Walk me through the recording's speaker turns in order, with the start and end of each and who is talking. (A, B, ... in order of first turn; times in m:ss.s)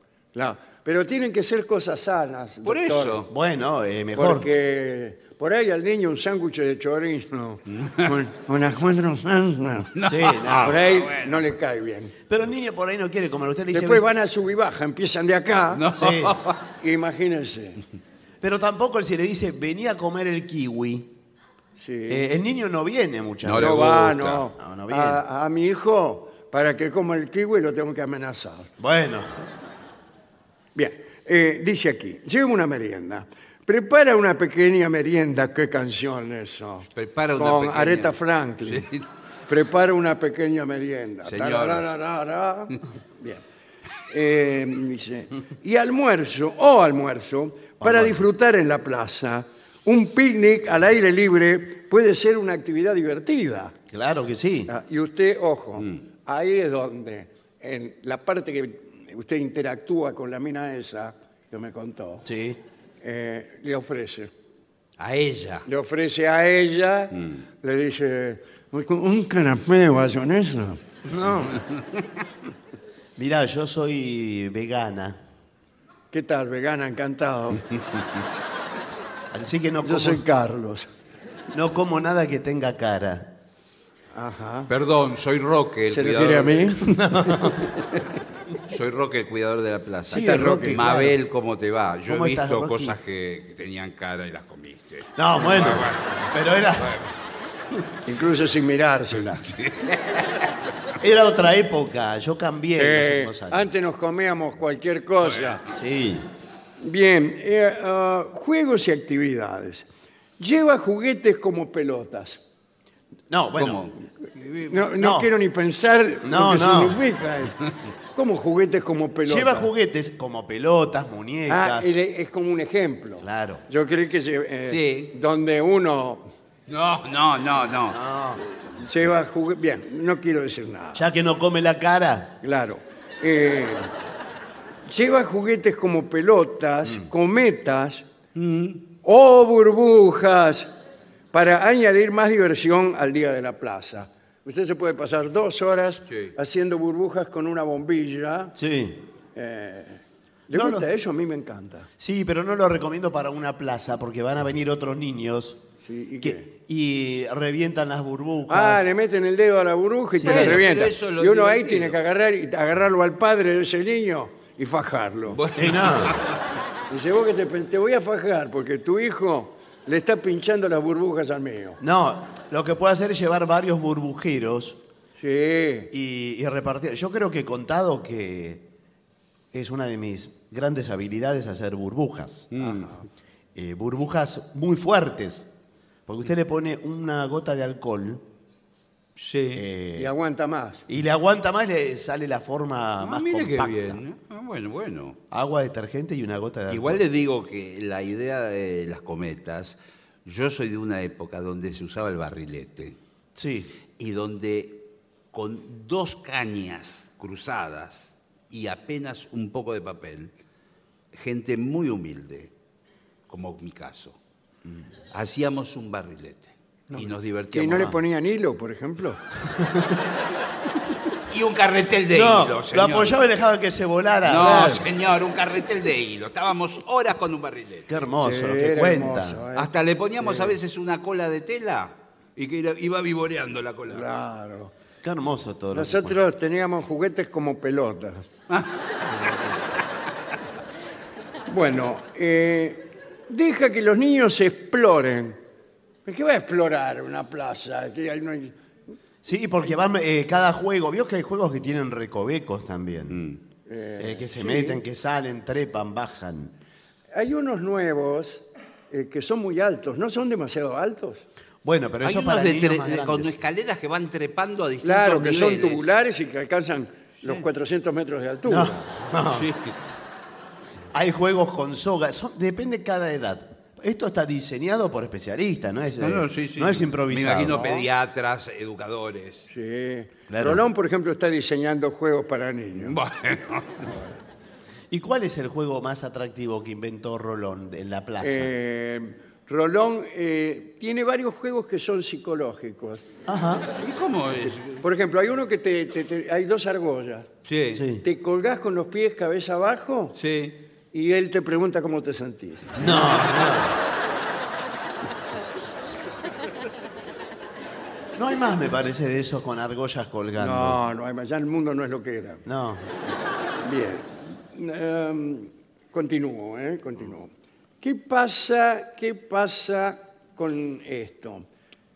0:00.4-0:03.3 A
0:02.6-0:03.3 B
0:03.3-0:04.5 C
0:04.2-0:09.9 A
0:07.8-0:08.1 B
0:09.9-0:11.3 B
0:10.1-0:10.8 C
0:10.6-0:12.1 A
0:12.3-0:14.0 C
0:13.7-0:15.8 A
0:15.7-0:16.6 B
0:15.9-0:16.4 C
0:16.8-0:17.8 A
0:18.4-0:21.1 C
0:21.8-0:22.3 A
0:22.1-0:24.0 C
0:23.4-0:24.4 B
0:23.5-0:28.7 A
0:24.6-0:25.2 C
0:28.8-0:29.4 C
0:30.8-0:38.9 A
0:37.0-0:39.0 B
0:39.5-0:43.4 A
0:41.2-0:41.8 B
0:44.1-0:53.7 A
0:47.8-0:48.2 C
0:53.9-0:54.7 C
0:54.7-1:02.3 A
1:02.2-1:02.6 C
1:03.0-1:04.3 A
1:05.0-1:05.6 B
1:05.7-1:10.8 A
1:11.0-1:11.6 C
1:13.2-1:15.2 C
1:16.1-1:17.6 A
1:19.3-1:20.2 C
1:19.8-1:20.9 A
1:21.5-1:23.4 C
1:24.2-1:24.7 A
1:24.7-1:26.8 B
1:25.9-1:27.5 A
1:26.8-1:27.6 C
1:28.7-1:36.2 B
1:30.1-1:31.2 C
1:30.1-1:30.8 A
1:32.1-1:33.0 C
1:35.2-1:37.0 C
1:36.8-1:37.1 B
1:38.0-1:39.5 A
1:39.4-1:40.3 B
1:41.0-1:43.6 C
1:42.8-1:45.6 A
1:45.3-1:45.6 B
1:45.7-1:46.3 C
1:46.8-1:49.9 A
1:50.4-1:52.4 A
1:53.3-1:53.9 C
1:53.6-1:54.8 B
1:54.7-1:57.6 A
1:55.0-1:55.3 C
1:56.2-1:57.0 C
1:58.2-1:59.7 A
1:59.2-2:01.9 C
2:01.5-2:06.2 A
2:03.2-2:03.6 C
2:04.7-2:05.1 B
2:06.7-2:08.0 B
2:07.9-2:08.4 C
2:08.7-2:11.0 A
2:11.0-2:12.4 C
2:12.4-2:13.9 A
2:14.9-2:18.0 A
2:18.4-2:18.8 B
2:19.0-2:20.7 A
2:21.3-2:28.6 A
2:28.6-2:29.0 C
2:29.4-2:31.9 A
2:30.5-2:30.9 C
2:32.0-2:35.6 C
2:35.8-2:36.5 A
2:36.2-2:38.8 C
2:38.5-2:45.4 A
2:40.2-2:42.0 B
2:40.2-2:40.6 C
2:45.3-2:46.4 B
2:45.6-2:46.2 C
2:46.9-2:51.8 A
2:51.8-2:54.8 C
2:55.2-2:55.9 A
2:55.9-2:58.7 C
2:59.5-3:02.5 C
3:02.5-3:03.0 B
3:02.6-3:03.0 A
3:03.6-3:05.5 C
3:06.1-3:08.2 C
3:09.2-3:09.6 B
3:09.6-3:10.1 C
3:10.0-3:10.8 A
3:10.9-3:14.0 C
3:13.0-3:15.2 B
3:15.3-3:17.0 C
3:16.7-3:23.0 B
3:23.4-3:23.7 C
3:24.0-3:30.3 B
3:31.1-3:32.5 B
3:33.3-3:34.2 B
3:35.1-3:37.9 B
3:36.9-3:39.2 A
3:39.5-3:39.9 C
3:41.3-3:43.2 B
3:42.1-3:44.9 C
3:44.2-3:47.9 B
3:47.9-3:49.4 C
3:48.2-3:50.6 A
3:49.6-3:54.0 B
3:53.9-3:54.7 A
3:55.0-3:56.2 C
3:55.7-3:58.3 A
4:01.5-4:05.4 A
4:06.0-4:08.6 A
4:09.2-4:13.2 C
4:13.1-4:13.4 B
4:13.7-4:14.8 A
4:14.0-4:16.6 C
4:17.1-4:21.2 A
4:21.6-4:23.4 C
4:22.0-4:25.8 B
4:24.8-4:28.8 A
4:28.4-4:29.5 C
4:29.3-4:29.8 B
4:30.9-4:37.6 C
4:36.0-4:39.5 B
4:37.5-4:37.9 A
4:39.5-4:43.0 A
4:40.3-4:40.6 C
4:42.8-4:43.9 B
4:44.9-4:48.5 C
4:48.2-4:53.0 A
4:53.3-4:53.7 C
4:53.8-4:54.8 B
4:54.8-4:57.3 A
4:57.5-4:57.8 B
4:57.7-4:58.0 C
4:58.0-5:00.2 A
5:00.2-5:00.6 B
5:00.9-5:02.8 A
5:02.8-5:03.2 B
5:02.8-5:03.8 C
5:08.2-5:10.8 C
5:10.4-5:12.4 A
5:12.4-5:12.9 C
5:13.6-5:21.5 A